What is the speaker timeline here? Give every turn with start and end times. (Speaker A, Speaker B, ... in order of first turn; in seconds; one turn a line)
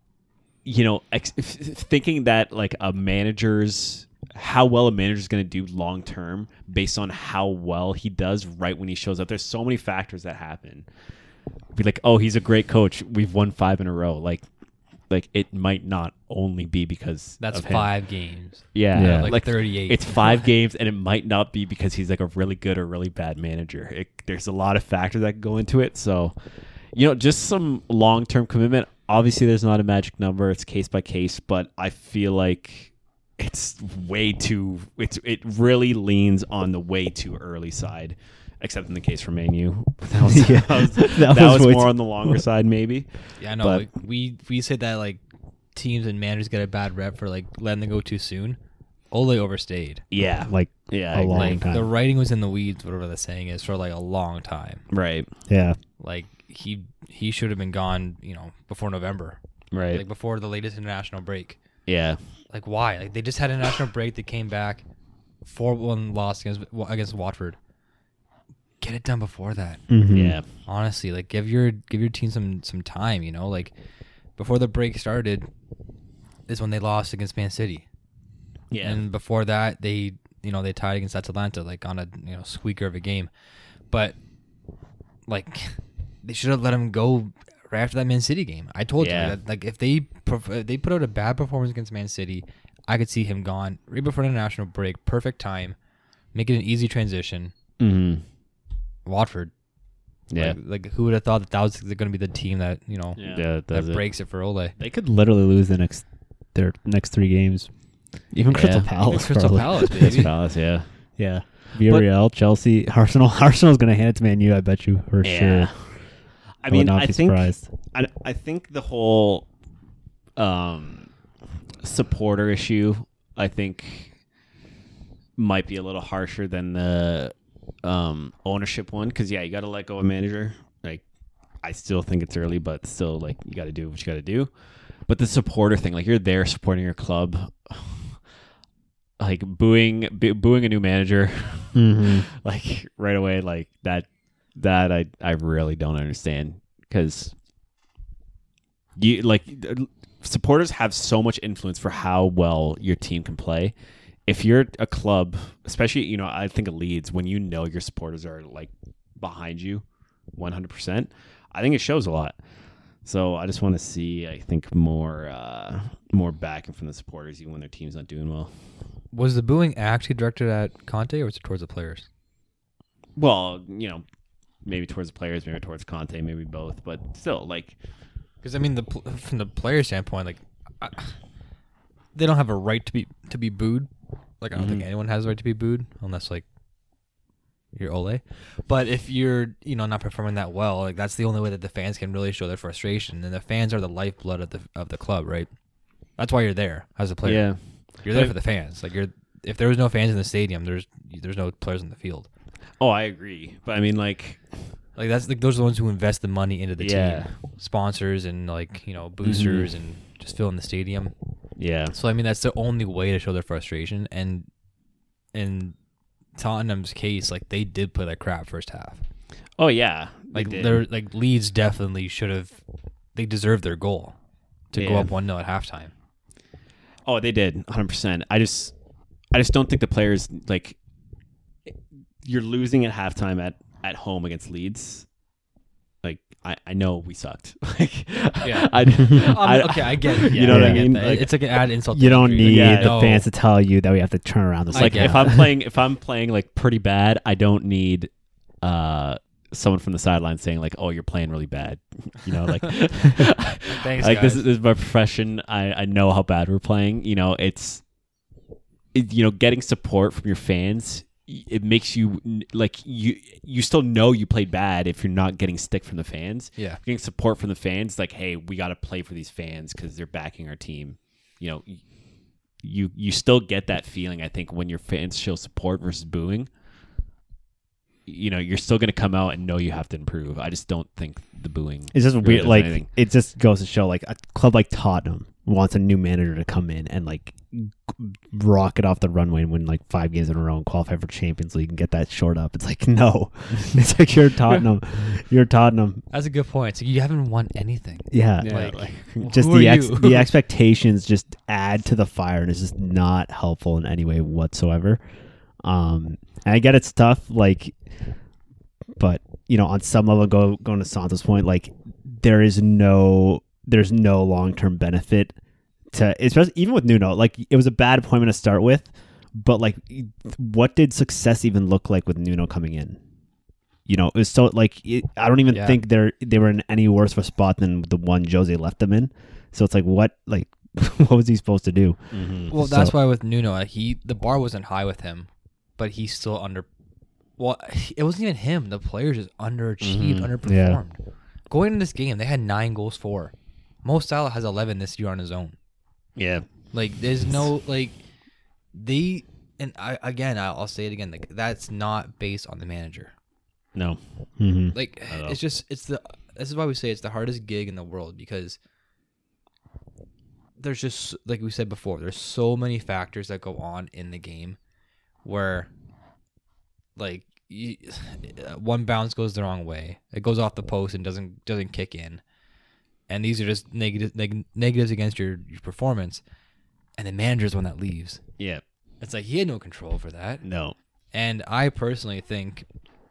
Speaker A: 0.7-10.9
Speaker A: 11.8-14.5
Speaker A: 15.1-17.9
Speaker B: 17.4-20.5
Speaker A: 18.7-43.9
Speaker C: 18.9-19.3
Speaker C: 40.2-42.4
Speaker B: 43.4-45.2
Speaker B: 45.7-48.6
Speaker B: 49.1-50.0
Speaker A: 50.1-51.6
Speaker C: 50.4-51.9
Speaker B: 51.3-54.8
Speaker A: 54.9-55.3
Speaker C: 55.5-55.8
Speaker B: 56.0-61.6
Speaker A: 59.7-60.0
Speaker A: 61.9-62.2
Speaker B: 62.5-64.8
Speaker B: 65.4-67.6
Speaker B: 68.8-69.9
Speaker C: 69.9-70.4
Speaker A: 70.1-70.5
Speaker B: 70.6-73.8
Speaker B: 74.4-75.5
Speaker B: 76.5-77.9
Speaker A: 78.7-79.0
Speaker B: 78.8-83.3
Speaker B: 83.9-84.2
Speaker B: 85.3-95.8
Speaker A: 89.0-89.4
Speaker B: 96.3-97.5
Speaker A: 97.8-98.2
Speaker B: 99.0-99.5
Speaker A: 100.3-100.6
Speaker B: 100.3-104.8
Speaker A: 103.2-104.1
Speaker C: 104.8-107.7
Speaker C: 108.3-110.4
Speaker A: 108.3-108.9
Speaker B: 108.7-110.3
Speaker A: 110.0-112.1
Speaker C: 111.2-116.0
Speaker A: 115.2-119.5
Speaker C: 116.7-117.6
Speaker A: 120.4-121.1
Speaker A: 121.8-124.2
Speaker A: 125.4-131.0
Speaker A: 131.6-138.3
Speaker A: 139.2-147.3
Speaker C: 141.7-142.3
Speaker A: 149.0-153.7
Speaker A: 154.3-162.4
Speaker A: 163.0-168.7
Speaker B: 169.1-172.1
Speaker A: 173.2-174.0
Speaker A: 174.6-177.8
Speaker B: 178.4-181.2
Speaker B: 182.2-186.4
Speaker A: 184.5-184.9
Speaker B: 187.7-195.5
Speaker B: 196.2-202.3
Speaker A: 197.2-198.3
Speaker A: 202.8-204.8
Speaker B: 205.0-211.1
Speaker A: 206.8-207.3
Speaker A: 209.2-209.7
Speaker A: 211.6-212.0
Speaker B: 211.9-214.5
Speaker B: 215.3-215.8
Speaker B: 216.3-219.0
Speaker A: 219.6-220.8
Speaker B: 220.3-224.2
Speaker B: 224.7-225.9
Speaker A: 224.8-225.1
Speaker A: 227.1-228.7
Speaker A: 229.3-230.8
Speaker A: 232.2-235.1
Speaker A: 236.0-241.3
Speaker B: 238.4-243.3
Speaker C: 240.3-245.4
Speaker A: 242.4-243.1
Speaker B: 244.7-245.4
Speaker A: 244.7-257.9
Speaker B: 253.7-254.5
Speaker A: 258.9-271.9
Speaker A: 272.6-276.5
Speaker A: 278.1-282.9
Speaker C: 281.9-296.0
Speaker B: 296.1-300.3
Speaker C: 298.1-305.0
Speaker A: 298.4-299.2
Speaker C: 305.6-308.0
Speaker C: 309.0-315.4
Speaker C: 315.9-323.0
Speaker C: 323.9-332.9
Speaker B: 325.5-325.8
Speaker A: 332.1-332.5
Speaker B: 332.5-336.7
Speaker B: 337.4-345.6
Speaker A: 339.8-340.3
Speaker C: 340.4-340.8
Speaker A: 346.2-346.7
Speaker B: 346.7-348.0
Speaker B: 348.7-353.1
Speaker A: 353.8-354.0
Speaker C: 354.4-354.8
Speaker B: 354.7-358.6
Speaker A: 355.1-355.4
Speaker B: 360.6-364.6
Speaker B: 365.2-365.7
Speaker B: 367.0-372.2
Speaker B: 373.1-376.2
Speaker B: 377.0-378.2
Speaker B: 379.0-380.4
Speaker A: 380.4-380.8
Speaker B: 381.1-382.7